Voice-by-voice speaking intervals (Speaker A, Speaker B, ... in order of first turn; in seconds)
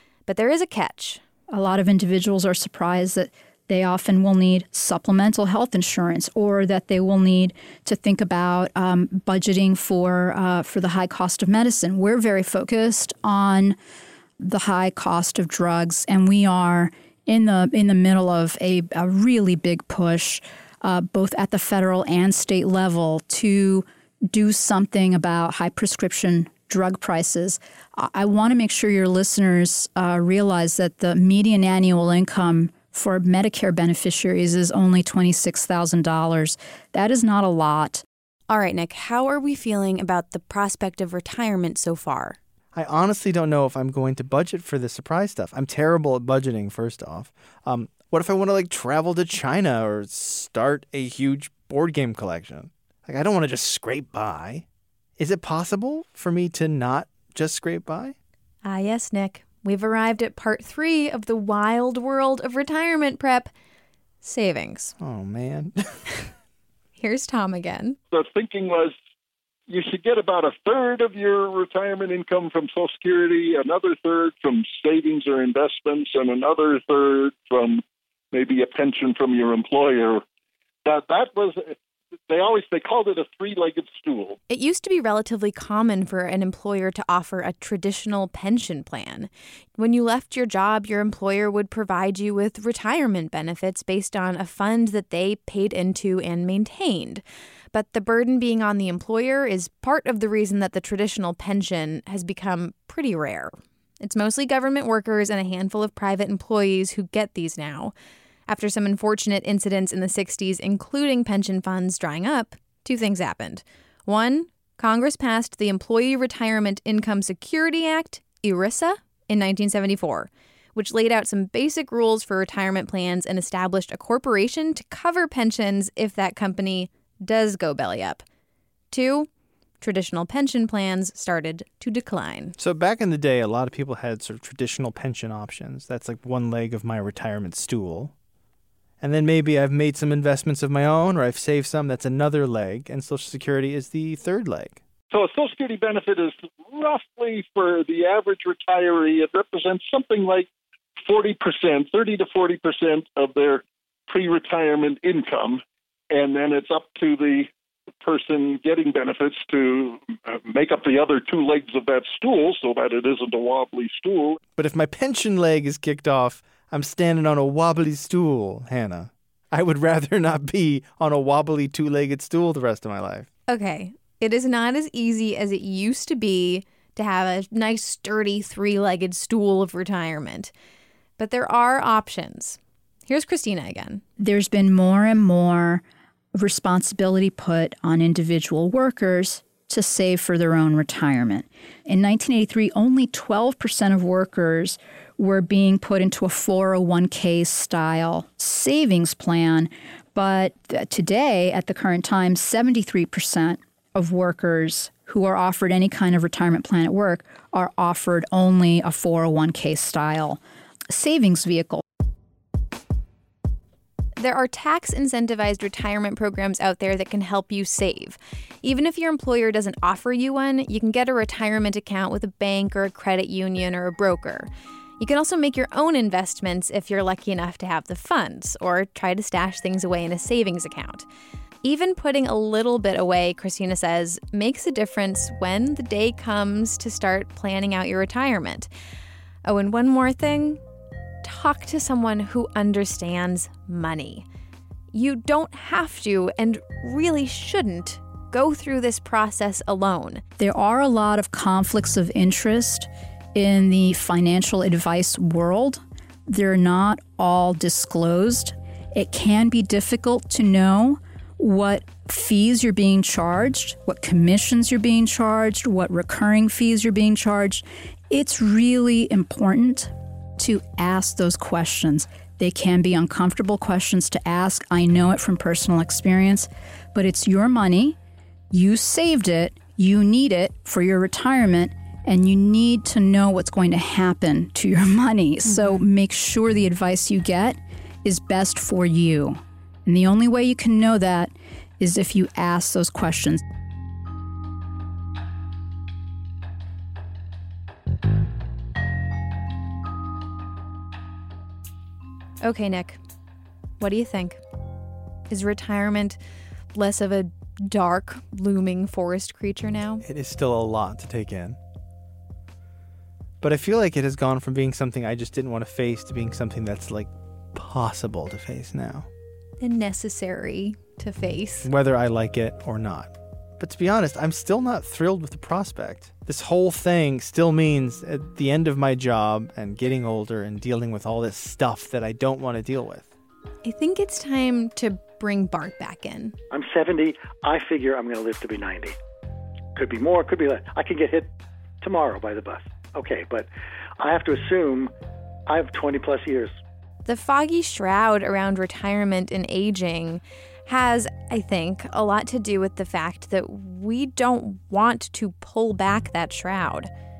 Speaker A: 0.3-1.2, 38.5-42.4, 58.6-63.5, 64.2-64.9, 67.0-68.0, 84.5-107.9, 108.5-128.2, 128.9-129.3, 129.8-132.5, 173.5-180.5, 181.2-184.0, 214.2-231.1, 231.6-238.7, 239.4-240.6, 241.2-244.2, 244.9-250.2, 302.4-303.0, 303.8-304.4, 305.3-306.2, 306.7-310.0, 319.6-321.7, 333.6-336.4, 347.1-356.9
Speaker B: 1.5-13.8, 14.4-38.0, 184.2-185.8, 186.3-211.8, 250.4-278.0, 278.5-293.4
Speaker C: 42.7-54.6, 55.2-58.1, 65.0-66.0, 132.6-138.1, 139.0-144.8, 164.6-173.3, 310.0-311.6, 313.4-319.1, 321.6-333.1
Speaker D: 68.1-68.9, 69.7-80.2, 80.8-81.8, 82.3-84.4, 145.1-150.5, 151.0-164.4
Speaker E: 336.5-339.0, 339.8-344.9, 345.5-346.6